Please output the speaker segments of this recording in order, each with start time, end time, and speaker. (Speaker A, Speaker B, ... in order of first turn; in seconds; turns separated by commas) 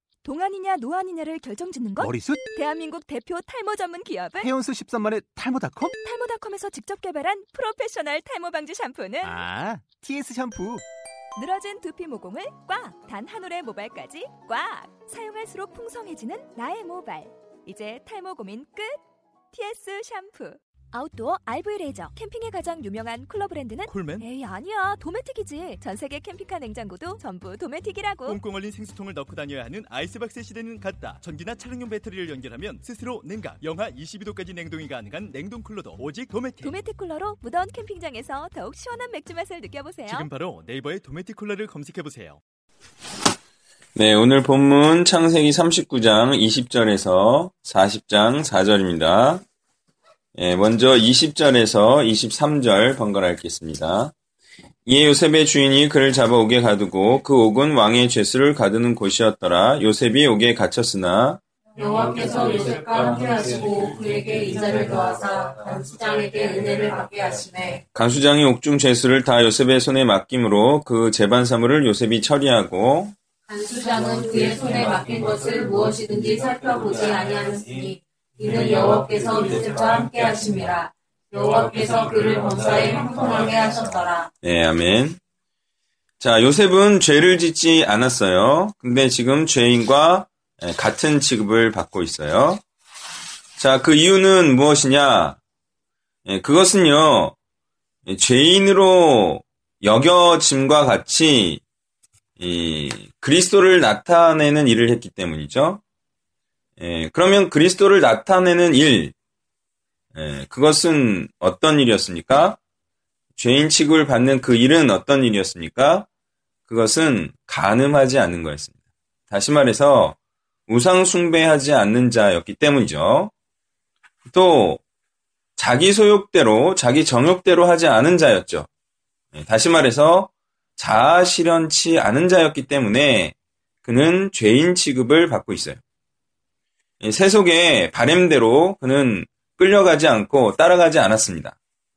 Speaker A: 0.2-4.5, Speaker B: 2.0-2.4, Speaker B: 4.4-5.9, Speaker A: 5.8-9.4, Speaker B: 9.2-10.8, Speaker A: 11.3-19.0, Speaker A: 19.5-28.4, Speaker C: 23.9-24.3, Speaker C: 28.2-36.8, Speaker A: 36.6-40.3, Speaker C: 40.0-42.4, Speaker D: 43.9-49.4, Speaker D: 50.4-54.1, Speaker D: 54.9-61.4, Speaker E: 61.8-67.8, Speaker D: 67.9-73.1, Speaker E: 73.5-84.3, Speaker D: 84.4-85.2, Speaker D: 86.2-92.6, Speaker D: 93.6-95.4, Speaker D: 96.2-97.3, Speaker D: 98.1-101.6, Speaker D: 102.4-105.8, Speaker D: 106.8-109.1, Speaker D: 110.1-112.6, Speaker D: 113.3-116.1, Speaker D: 116.7-118.8, Speaker D: 119.3-120.2, Speaker D: 120.7-123.3, Speaker D: 124.3-124.8, Speaker D: 125.6-128.7, Speaker D: 129.3-135.8, Speaker D: 137.0-141.6